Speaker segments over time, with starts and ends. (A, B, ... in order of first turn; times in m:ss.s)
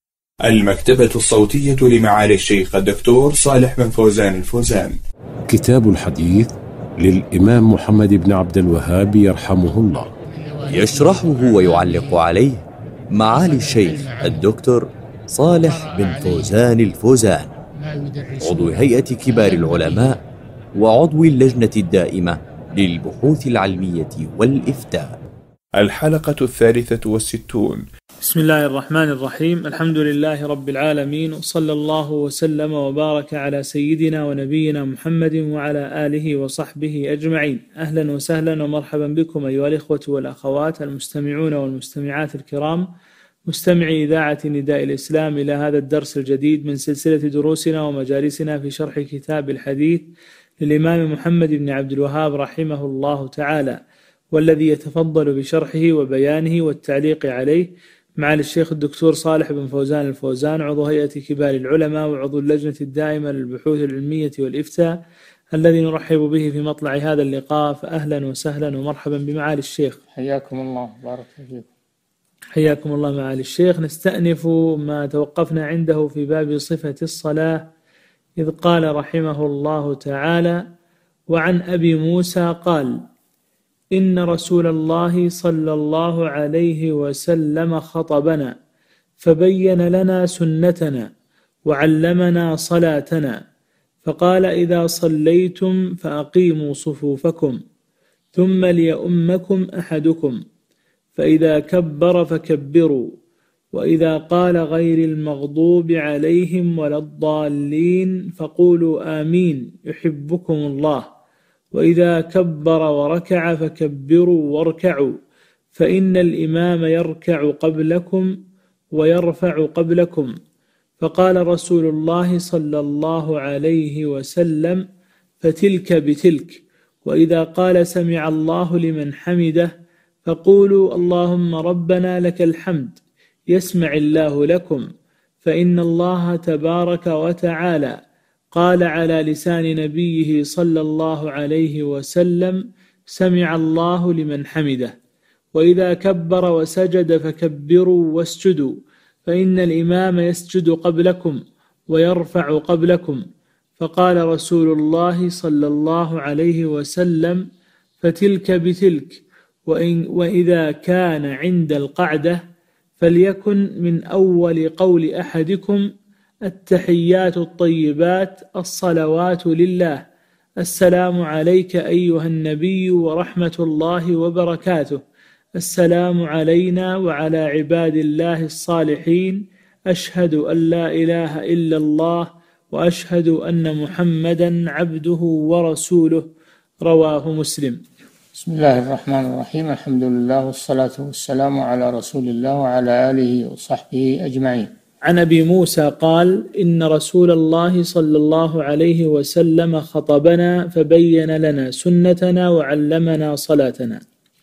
0:00.4-0:05.0 A
0:05.5-0:10.1 B
0:10.3-0:12.2 C
0:10.7-0:17.5 D
0:13.3-0:14.4 C
0:15.5-0:16.6 C
0:17.8-0:20.2 C
0:18.4-0:20.2 D
0:20.8-0:25.2 D
0:25.8-0:27.9 A
0:28.2-0:42.9 E
0:43.4-0:53.8 E
0:54.3-1:05.0 E
1:05.5-1:10.0 E
1:10.2-1:11.7 C
1:12.5-1:17.6 E
1:18.4-1:20.6 E
1:21.3-1:23.0 E
1:24.0-1:28.5 E
1:29.2-1:31.1 E
1:31.7-1:33.4 E
1:34.0-1:37.6 E
1:38.3-1:40.4 E
1:41.2-1:43.1 E
1:43.7-1:51.1 E
1:51.7-1:55.2 E
1:55.7-1:58.3 E
1:58.9-2:00.3 E
2:01.0-2:04.8 E
2:05.4-2:09.7 E
2:10.2-2:13.0 E
2:13.5-2:14.8 E
2:15.4-2:18.0 E
2:18.5-2:24.9 E
2:25.6-2:33.2 E
2:33.8-2:37.4 E
2:38.0-2:42.4 E
2:43.0-2:45.9 E
2:46.5-2:50.0 E
2:50.6-2:55.0 E
2:55.6-3:06.2 E
3:06.8-3:07.8 E
3:08.4-3:14.7 C
3:15.1-3:24.0 E